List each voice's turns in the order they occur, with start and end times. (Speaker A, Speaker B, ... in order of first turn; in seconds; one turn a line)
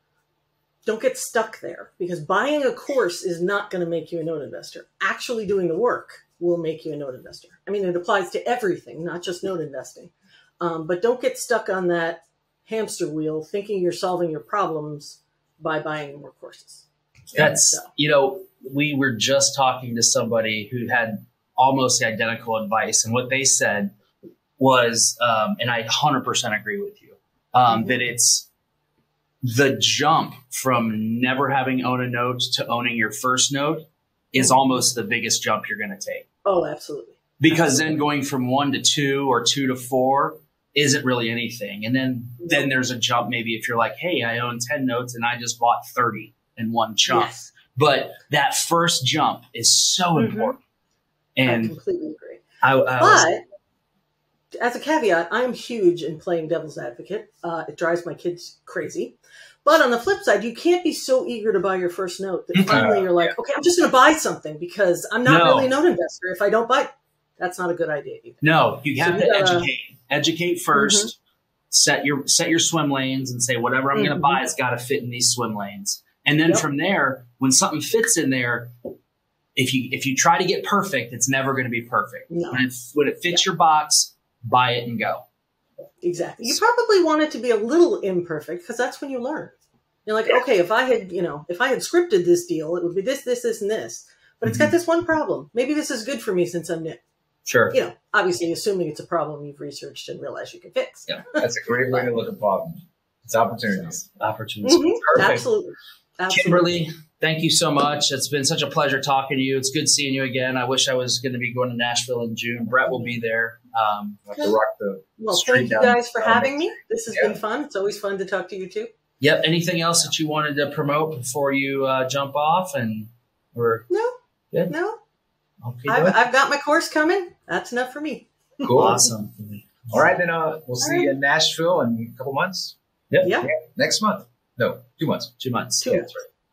Speaker A: 0.8-16.9
Speaker B: 17.4-23.9
Speaker A: 17.4-17.9
Speaker B: 24.6-28.5
Speaker A: 27.7-28.0
Speaker B: 29.4-36.3
Speaker A: 34.4-34.7
Speaker A: 36.5-37.8
Speaker B: 37.4-50.6
Speaker A: 42.4-42.7
Speaker A: 47.1-47.5
Speaker A: 50.2-50.6
Speaker B: 51.4-51.8
Speaker A: 51.5-52.4
Speaker B: 52.6-53.3
Speaker A: 53.0-53.4
Speaker A: 54.5-68.5
Speaker C: 62.6-63.2
Speaker B: 65.2-65.7
Speaker B: 68.4-71.2
Speaker A: 69.0-69.7
Speaker A: 70.8-71.1
Speaker B: 71.7-78.7
Speaker A: 74.0-74.4
Speaker B: 79.6-85.2
Speaker A: 82.3-82.7
Speaker A: 86.0-97.0
Speaker B: 94.5-94.7
Speaker B: 97.5-97.8
Speaker A: 97.7-102.1
Speaker C: 101.4-104.0
Speaker B: 104.2-105.5
Speaker A: 104.6-106.8
Speaker B: 106.3-114.3
Speaker C: 114.3-117.4
Speaker A: 115.2-118.9
Speaker B: 115.6-116.0
Speaker B: 119.2-123.9
Speaker A: 123.9-124.2
Speaker A: 124.7-125.0
Speaker B: 125.6-126.2
Speaker A: 125.9-128.7
Speaker C: 128.6-129.0
Speaker B: 128.7-129.9
Speaker C: 129.9-132.8
Speaker A: 130.8-131.1
Speaker B: 133.1-133.4
Speaker A: 133.2-133.5
Speaker C: 133.4-135.3
Speaker B: 135.4-136.2
Speaker A: 135.8-136.1